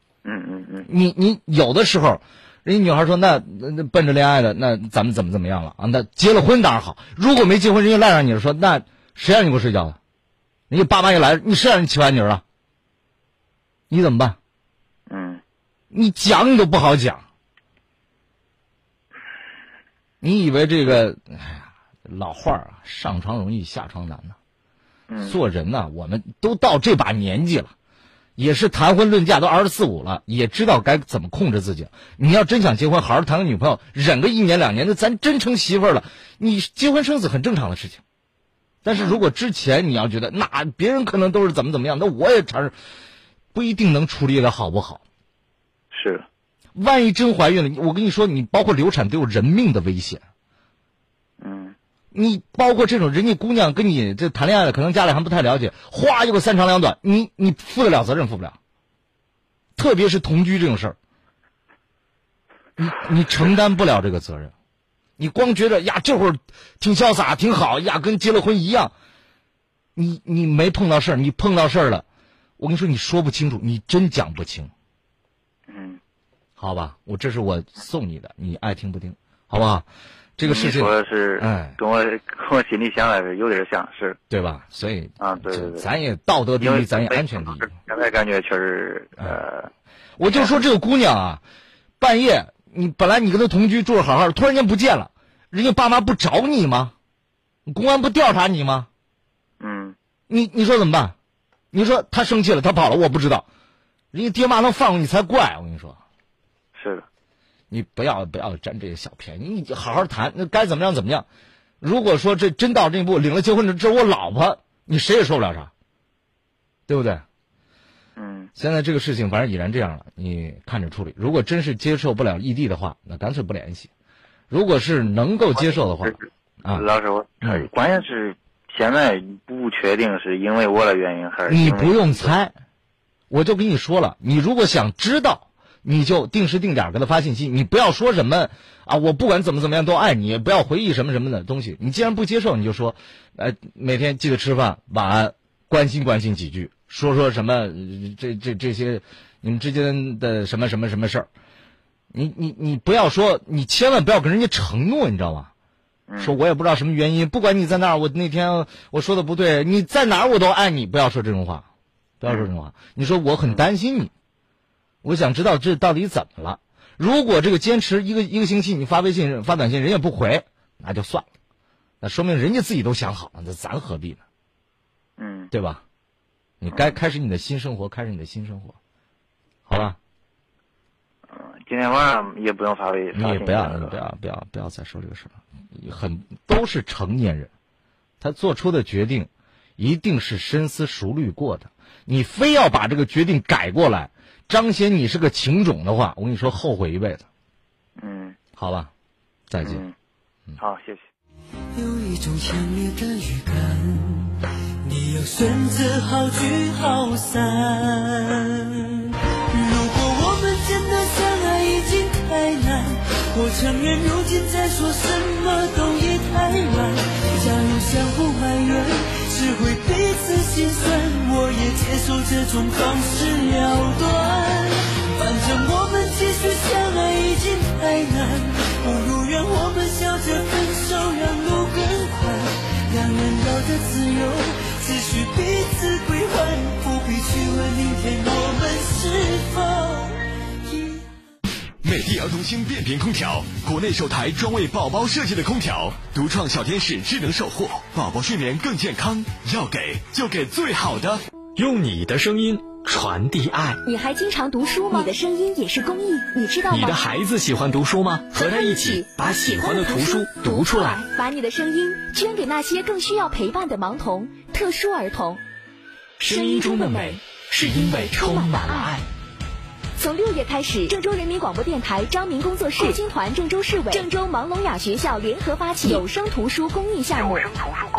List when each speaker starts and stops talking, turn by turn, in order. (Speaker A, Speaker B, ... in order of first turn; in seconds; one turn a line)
Speaker A: 0.2-0.9
Speaker B: 0.8-10.0
Speaker B: 10.7-12.4
Speaker B: 13.9-14.4
Speaker A: 15.1-15.4
Speaker B: 15.9-17.2
Speaker B: 20.2-24.4
Speaker A: 25.1-25.4
Speaker B: 25.2-27.7
Speaker B: 28.4-38.0
Speaker B: 38.8-42.7
Speaker A: 38.9-39.2
Speaker B: 43.5-45.0
Speaker A: 45.9-46.2
Speaker B: 46.8-50.2
Speaker A: 51.4-51.7
Speaker B: 52.1-58.6
Speaker B: 59.8-61.0
Speaker B: 62.8-64.5
Speaker B: 65.2-68.9
Speaker B: 70.0-72.0
Speaker B: 72.6-74.7
Speaker A: 75.7-76.0
Speaker B: 76.6-79.9
Speaker B: 80.4-81.8
Speaker A: 80.4-84.2
Speaker B: 84.3-87.7
Speaker A: 85.2-85.9
Speaker A: 86.6-89.7
Speaker B: 90.2-91.4
Speaker A: 90.3-90.5
Speaker B: 92.0-96.9
Speaker B: 97.7-98.9
Speaker A: 99.6-100.0
Speaker B: 100.3-101.1
Speaker B: 101.7-103.5
Speaker B: 104.1-106.0
Speaker A: 106.7-107.0
Speaker B: 107.7-111.2
Speaker B: 111.8-115.7
Speaker B: 116.9-117.2
Speaker A: 118.2-118.5
Speaker B: 118.5-123.9
Speaker B: 124.5-126.9
Speaker A: 125.5-132.3
Speaker B: 131.5-132.5
Speaker B: 133.3-151.3
Speaker B: 152.1-155.5
Speaker A: 156.1-156.4
Speaker B: 156.2-161.7
Speaker B: 162.2-164.1
Speaker A: 162.2-162.5
Speaker B: 165.0-171.3
Speaker B: 172.0-174.2
Speaker A: 175.2-175.5
Speaker B: 175.5-175.8
Speaker B: 176.6-178.8
Speaker A: 176.7-177.0
Speaker B: 179.7-180.0
Speaker A: 181.3-184.0
Speaker B: 183.1-187.5
Speaker B: 188.2-197.2
Speaker A: 198.0-198.4
Speaker B: 198.6-198.9
Speaker B: 199.5-199.8
Speaker A: 199.6-199.9
Speaker A: 200.6-201.1
Speaker C: 201.7-204.3
Speaker C: 204.8-208.6
Speaker C: 209.5-240.9
Speaker D: 241.8-251.2
Speaker E: 251.6-253.8
Speaker F: 253.8-257.0
Speaker E: 256.7-261.0
Speaker F: 258.3-265.4
Speaker E: 266.2-269.0
Speaker F: 266.2-268.9
Speaker F: 270.0-277.5